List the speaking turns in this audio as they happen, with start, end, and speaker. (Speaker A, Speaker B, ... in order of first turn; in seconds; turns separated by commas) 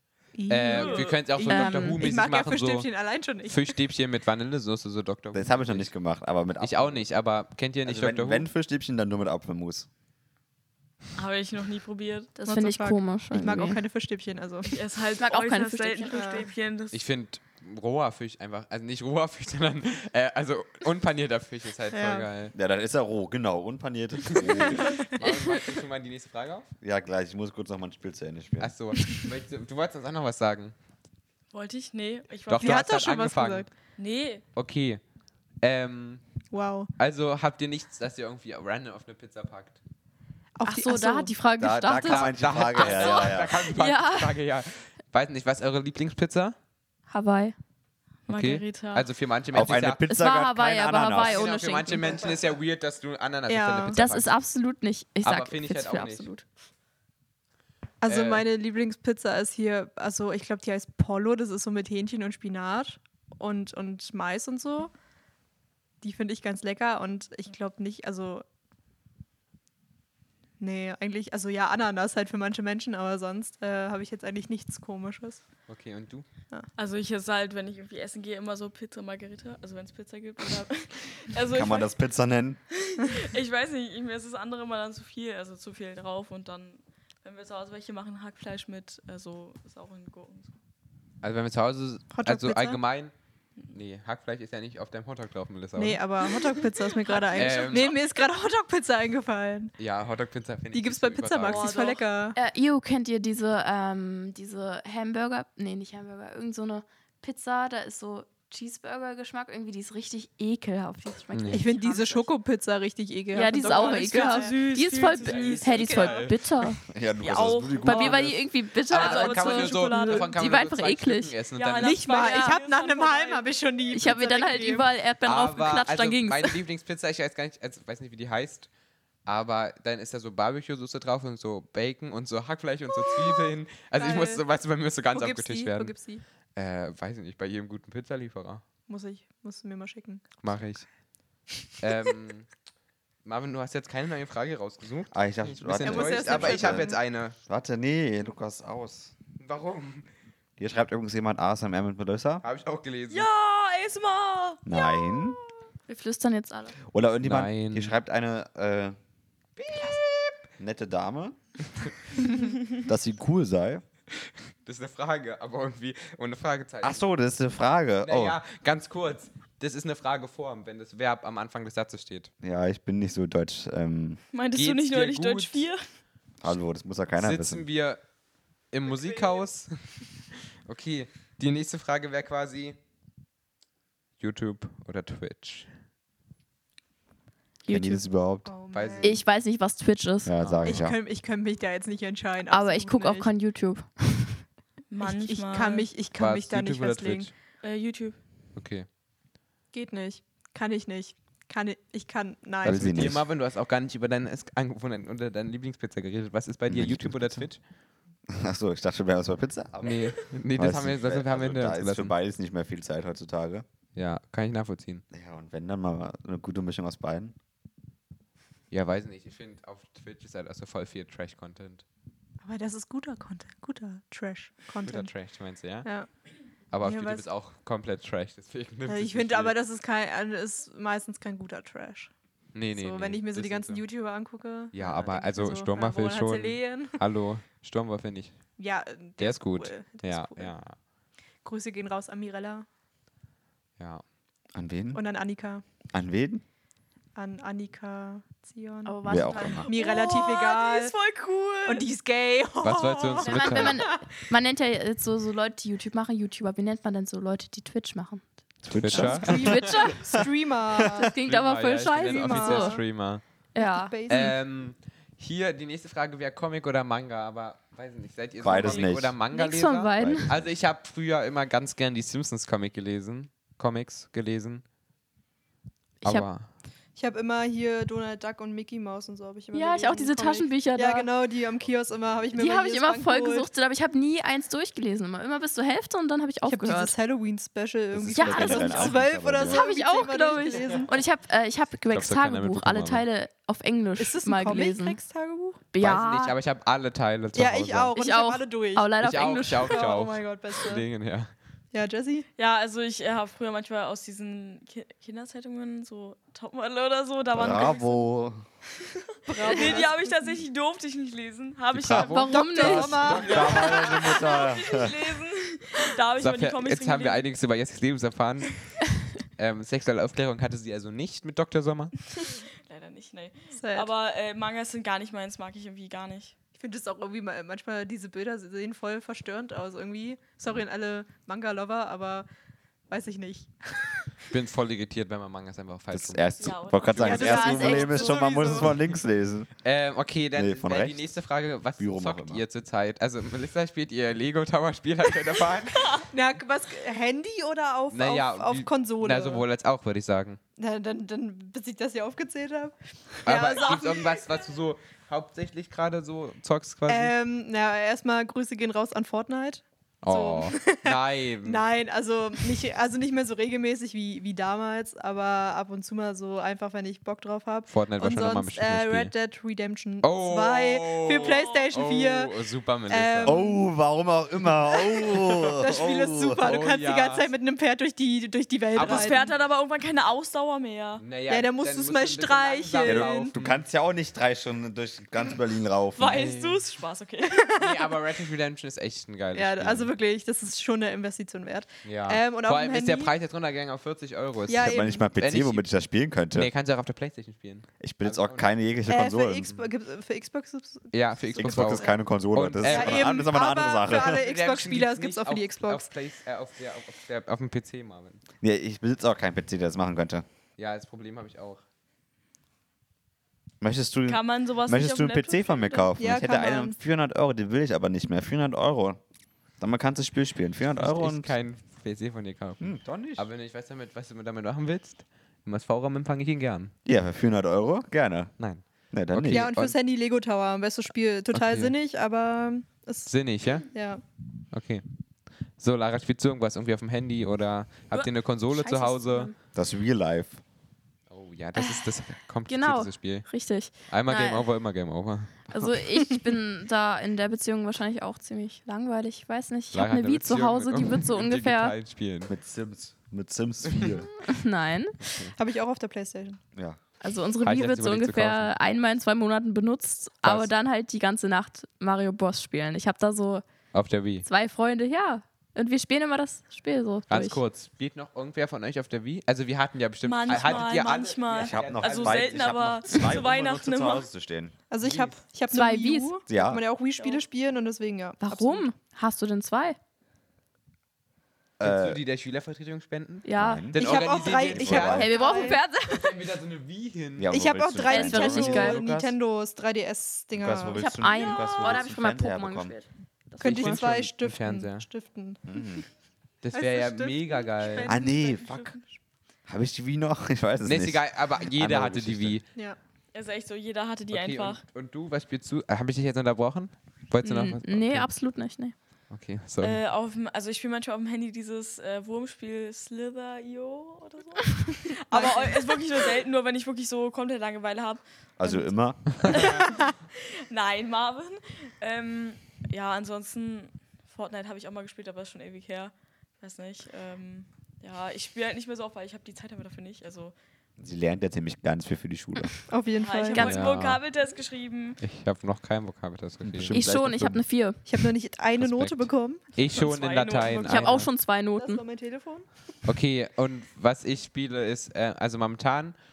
Speaker A: 0.3-3.8, Speaker B: 0.5-2.9, Speaker C: 0.7-1.1, Speaker D: 1.4-2.0, Speaker B: 3.5-5.9, Speaker E: 5.3-7.1, Speaker B: 6.6-8.5, Speaker E: 7.8-9.9, Speaker C: 11.2-12.4, Speaker D: 12.4-13.8, Speaker A: 12.4-14.7, Speaker C: 14.6-17.0, Speaker D: 15.2-16.4, Speaker A: 16.1-16.5, Speaker B: 16.9-22.5, Speaker A: 21.9-22.3, Speaker E: 22.5-25.0, Speaker B: 24.3-26.7, Speaker A: 24.8-25.1, Speaker E: 26.8-28.7, Speaker B: 28.6-30.7, Speaker C: 31.5-32.8, Speaker B: 32.5-33.7, Speaker A: 32.5-33.7, Speaker C: 34.0-34.4, Speaker B: 34.5-35.0, Speaker B: 35.6-36.2, Speaker A: 36.5-36.9, Speaker B: 37.0-39.8, Speaker A: 40.5-41.3, Speaker D: 40.6-44.4, Speaker E: 41.6-43.6, Speaker B: 42.0-46.5, Speaker D: 47.1-47.5, Speaker C: 48.3-49.1, Speaker B: 48.3-50.0, Speaker E: 49.5-51.5, Speaker D: 50.1-52.4, Speaker B: 51.2-54.3, Speaker A: 53.5-54.0, Speaker D: 53.9-56.4, Speaker B: 55.2-56.3, Speaker A: 58.0-64.9, Speaker B: 58.0-58.5, Speaker A: 66.0-68.4, Speaker A: 70.6-75.4, Speaker B: 75.7-76.2, Speaker C: 76.8-82.0, Speaker E: 81.5-82.6, Speaker C: 82.7-90.5, Speaker B: 91.2-93.1, Speaker A: 92.1-92.8, Speaker B: 93.7-96.0, Speaker A: 95.8-99.7, Speaker C: 96.6-98.0, Speaker B: 97.3-98.0, Speaker B: 99.8-101.7, Speaker A: 100.7-102.4, Speaker C: 101.4-102.1, Speaker D: 102.3-112.3, Speaker B: 111.3-111.7, Speaker A: 111.5-114.8, Speaker D: 113.3-116.8, Speaker C: 113.5-116.1, Speaker B: 115.1-116.4, Speaker A: 115.7-116.2, Speaker E: 116.9-118.3, Speaker C: 117.2-120.4, Speaker D: 117.8-121.4, Speaker B: 118.8-122.1, Speaker C: 121.5-123.5, Speaker A: 121.8-124.9, Speaker D: 122.1-122.5, Speaker D: 123.9-126.6, Speaker B: 125.2-128.7, Speaker B: 129.2-135.9, Speaker A: 133.1-134.4, Speaker A: 135.1-136.2, Speaker B: 136.5-138.6, Speaker A: 138.9-140.3, Speaker B: 140.4-140.9, Speaker B: 141.8-142.5, Speaker B: 143.2-147.3, Speaker E: 145.1-149.1, Speaker A: 145.8-147.0, Speaker B: 149.4-150.1, Speaker E: 150.6-152.4, Speaker B: 152.4-153.3, Speaker C: 153.1-155.3, Speaker E: 154.7-155.4, Speaker D: 155.9-156.8, Speaker E: 156.9-158.9, Speaker B: 157.2-157.9, Speaker B: 159.6-160.4, Speaker E: 160.6-161.3, Speaker E: 162.7-163.8, Speaker B: 164.1-167.0, Speaker E: 166.8-168.4, Speaker B: 168.0-172.3, Speaker E: 172.4-174.2, Speaker C: 174.3-175.8, Speaker B: 174.5-175.7, Speaker E: 176.4-177.7, Speaker B: 177.2-178.0, Speaker B: 178.7-179.8, Speaker B: 180.7-182.8, Speaker B: 184.2-185.7, Speaker D: 187.7-188.1, Speaker E: 187.7-188.5, Speaker A: 188.4-189.2, Speaker B: 188.7-189.2, Speaker D: 189.0-190.5, Speaker E: 190.2-191.0, Speaker B: 190.4-190.8, Speaker A: 190.6-193.3, Speaker D: 192.5-194.4, Speaker C: 194.9-195.9, Speaker A: 195.0-197.3, Speaker B: 196.2-197.3, Speaker C: 197.6-198.2, Speaker B: 198.5-198.9, Speaker A: 199.7-203.2, Speaker E: 202.6-203.2, Speaker B: 202.6-207.6, Speaker E: 206.7-207.5, Speaker E: 208.3-213.6, Speaker B: 209.8-212.1, Speaker B: 213.9-215.0, Speaker E: 215.1-217.3, Speaker B: 218.7-221.8, Speaker A: 222.4-225.2, Speaker B: 224.8-225.9, Speaker A: 225.8-226.1, Speaker B: 226.7-229.6, Speaker A: 226.8-227.3, Speaker A: 228.9-232.1, Speaker B: 232.5-233.8, Speaker A: 232.7-237.0, Speaker B: 234.7-238.4, Speaker A: 238.6-240.6, Speaker B: 239.2-240.8, Speaker A: 241.4-242.7, Speaker B: 243.8-244.0, Speaker E: 244.5-245.0, Speaker A: 244.9-245.6, Speaker E: 245.9-246.4, Speaker A: 247.1-250.9, Speaker D: 248.8-249.7, Speaker E: 249.0-249.7, Speaker C: 249.7-251.9, Speaker A: 251.6-254.3, Speaker B: 252.6-253.8, Speaker D: 253.2-258.3, Speaker E: 258.6-261.0, Speaker B: 258.7-259.9, Speaker D: 258.8-260.2, Speaker A: 259.0-261.1, Speaker D: 260.9-262.8, Speaker B: 261.2-263.2, Speaker A: 262.0-262.9, Speaker D: 263.5-264.0, Speaker A: 263.6-264.4, Speaker B: 264.1-274.6, Speaker E: 268.4-269.1, Speaker D: 269.3-270.3, Speaker E: 269.9-270.5, Speaker B: 276.0-276.5, Speaker A: 276.9-283.5, Speaker D: 279.5-281.1, Speaker D: 282.3-286.9, Speaker A: 286.4-291.0, Speaker E: 287.9-289.6, Speaker D: 288.1-295.0, Speaker B: 290.5-290.8, Speaker B: 291.9-293.1, Speaker A: 294.0-295.6, Speaker D: 295.7-296.4, Speaker B: 295.8-298.0, Speaker A: 297.3-300.9, Speaker D: 298.0-299.9, Speaker B: 299.0-301.3, Speaker A: 301.7-302.3, Speaker C: 302.4-308.1, Speaker E: 307.3-308.4, Speaker C: 308.8-317.3, Speaker A: 309.3-310.3, Speaker B: 311.7-313.7, Speaker D: 312.0-313.2, Speaker A: 312.3-314.1, Speaker E: 312.7-314.9, Speaker B: 316.2-318.7, Speaker B: 319.3-321.9, Speaker C: 322.2-326.3, Speaker A: 323.6-323.9, Speaker A: 326.5-332.3, Speaker A: 332.9-334.1, Speaker B: 334.3-336.3, Speaker E: 335.9-339.5, Speaker C: 336.4-338.2, Speaker B: 336.8-337.4, Speaker A: 337.0-338.8, Speaker D: 337.1-338.2, Speaker B: 339.6-346.0, Speaker E: 340.3-341.1, Speaker E: 341.8-342.4, Speaker A: 346.1-349.4, Speaker B: 347.9-350.4, Speaker A: 350.6-354.2, Speaker B: 353.2-357.1, Speaker A: 356.9-372.3, Speaker B: 360.0-361.6, Speaker B: 367.7-369.1, Speaker B: 370.0-373.4, Speaker C: 371.2-371.6, Speaker A: 372.9-373.7, Speaker E: 373.2-376.4, Speaker A: 374.7-379.2, Speaker B: 376.4-377.3, Speaker B: 378.7-379.4, Speaker C: 378.8-381.0, Speaker B: 381.0-383.6, Speaker A: 381.3-383.3, Speaker E: 382.8-386.2, Speaker C: 385.9-387.5, Speaker B: 386.1-386.6, Speaker A: 387.3-387.8, Speaker B: 387.6-389.9, Speaker A: 389.3-393.1, Speaker B: 391.8-395.7, Speaker A: 394.5-395.1, Speaker E: 394.6-396.5, Speaker B: 396.3-398.5, Speaker E: 397.8-399.5, Speaker A: 398.9-401.9, Speaker B: 400.9-403.3, Speaker E: 401.4-404.2, Speaker A: 402.6-405.9, Speaker B: 403.9-408.2, Speaker E: 408.4-410.2, Speaker B: 410.6-411.6, Speaker E: 413.6-419.0, Speaker C: 414.1-415.9, Speaker A: 416.0-416.8, Speaker E: 419.6-421.3, Speaker B: 420.8-426.7, Speaker E: 422.6-423.2, Speaker E: 426.9-428.3, Speaker B: 428.4-429.8, Speaker E: 428.9-429.5, Speaker A: 429.3-434.0, Speaker B: 431.3-431.7, Speaker B: 433.1-433.7, Speaker B: 434.5-434.8, Speaker B: 435.6-439.3, Speaker D: 438.5-439.3, Speaker E: 439.5-440.4, Speaker B: 441.1-443.3, Speaker D: 441.6-441.9, Speaker D: 442.5-444.5, Speaker B: 443.9-445.6, Speaker D: 445.5-451.7, Speaker B: 449.7-452.3, Speaker E: 452.3-454.1, Speaker D: 454.1-455.0, Speaker B: 455.0-455.3, Speaker A: 455.4-456.4, Speaker D: 457.0-463.4, Speaker B: 457.4-458.5, Speaker B: 460.2-460.5, Speaker B: 463.7-464.2, Speaker D: 464.2-467.4, Speaker B: 467.1-472.7, Speaker C: 470.0-474.0, Speaker E: 471.3-474.5, Speaker A: 474.7-478.6, Speaker B: 474.8-475.2, Speaker D: 475.5-476.1, Speaker E: 476.3-476.6, Speaker D: 478.2-479.8, Speaker E: 481.6-482.0, Speaker B: 481.6-485.3, Speaker D: 483.2-484.2, Speaker E: 483.4-485.2, Speaker A: 483.7-485.6, Speaker D: 484.7-486.2, Speaker B: 485.9-487.3, Speaker E: 487.2-489.1, Speaker A: 487.3-490.9, Speaker D: 487.9-488.8, Speaker B: 488.2-488.5, Speaker E: 490.3-492.8, Speaker D: 490.7-493.8, Speaker C: 491.1-491.9, Speaker B: 493.4-494.9, Speaker A: 493.4-495.4, Speaker E: 495.5-495.9, Speaker B: 496.4-498.0, Speaker A: 496.5-498.8, Speaker E: 497.9-498.8, Speaker E: 499.5-502.4, Speaker B: 500.6-502.4, Speaker C: 503.1-504.6, Speaker B: 504.1-508.1, Speaker D: 507.2-508.7, Speaker B: 509.1-509.8, Speaker C: 509.6-518.0, Speaker A: 514.9-515.8, Speaker E: 518.4-519.3, Speaker A: 518.4-518.7, Speaker B: 519.2-519.6, Speaker C: 519.3-530.3, Speaker E: 530.8-532.5, Speaker A: 532.7-533.5, Speaker C: 533.0-535.0, Speaker B: 533.4-534.0, Speaker B: 535.0-536.8, Speaker E: 536.4-537.4, Speaker D: 536.7-537.9, Speaker A: 537.9-539.5, Speaker B: 538.6-541.1, Speaker C: 539.6-541.0, Speaker D: 540.6-541.8, Speaker A: 541.5-542.6, Speaker B: 542.8-546.0